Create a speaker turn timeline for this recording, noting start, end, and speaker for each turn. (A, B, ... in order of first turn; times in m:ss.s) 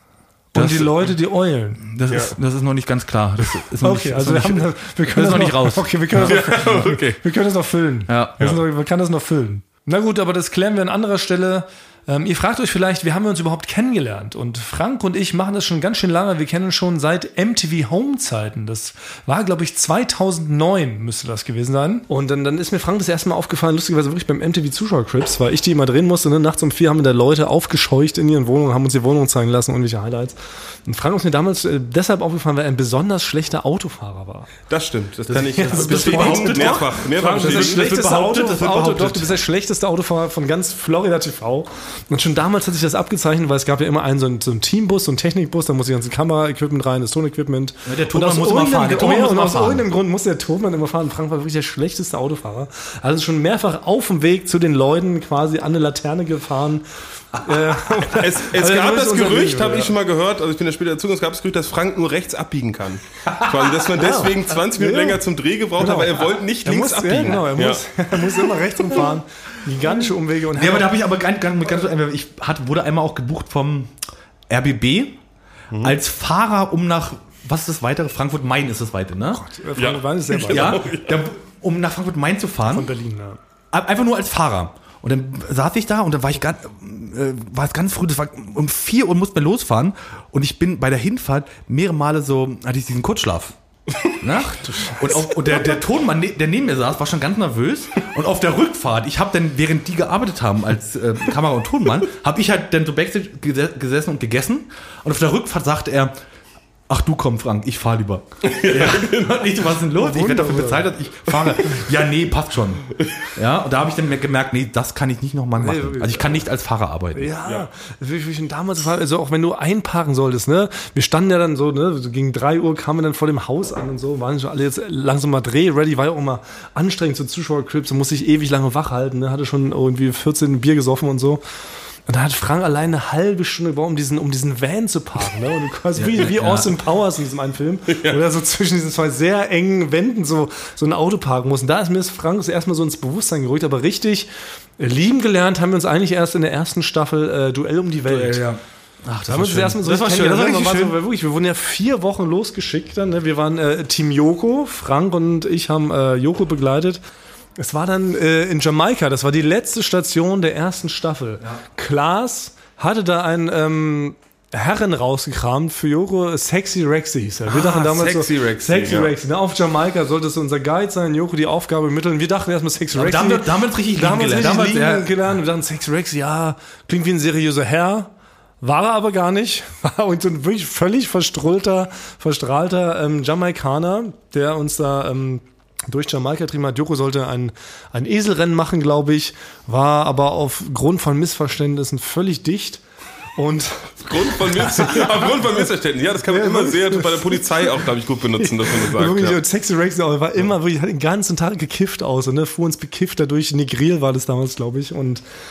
0:00.5-0:01.8 A
0:00.5-0:01.1 B
0:01.8-0:06.6 B
0:02.1-0:02.3 C
0:03.8-0:34.5 A
0:06.2-0:07.2 C
0:08.1-0:08.4 B
0:34.7-0:37.9 C
0:35.3-0:39.4 B
0:35.6-0:59.9 A
0:47.8-0:49.9 B
0:58.0-1:08.3 C
1:03.8-1:05.2 A
1:05.8-1:10.9 A
1:10.6-1:13.9 B
1:14.5-1:15.2 B
1:15.8-1:19.4 B
1:19.3-1:20.8 A
1:19.8-1:21.3 C
1:20.5-1:22.9 B
1:22.7-1:23.4 A
1:23.7-1:33.5 B
1:34.2-1:46.1 B
1:34.6-1:35.2 A
1:46.9-1:57.3 B
1:48.4-1:49.4 C
1:49.9-1:50.9 A
1:55.6-1:56.4 A
1:57.1-2:11.4 A
2:12.1-2:28.4 A
2:16.0-2:16.8 B
2:17.9-2:18.2 C
2:28.1-2:31.0 B
2:29.3-2:37.0 A
2:37.6-2:58.1 A
2:47.5-2:48.6 B
2:48.6-2:49.1 C
2:52.9-2:55.1 B
2:58.6-3:12.8 A
3:13.4-3:15.4 A
3:14.0-3:19.4 C
3:16.3-3:17.4 A
3:18.4-3:25.2 A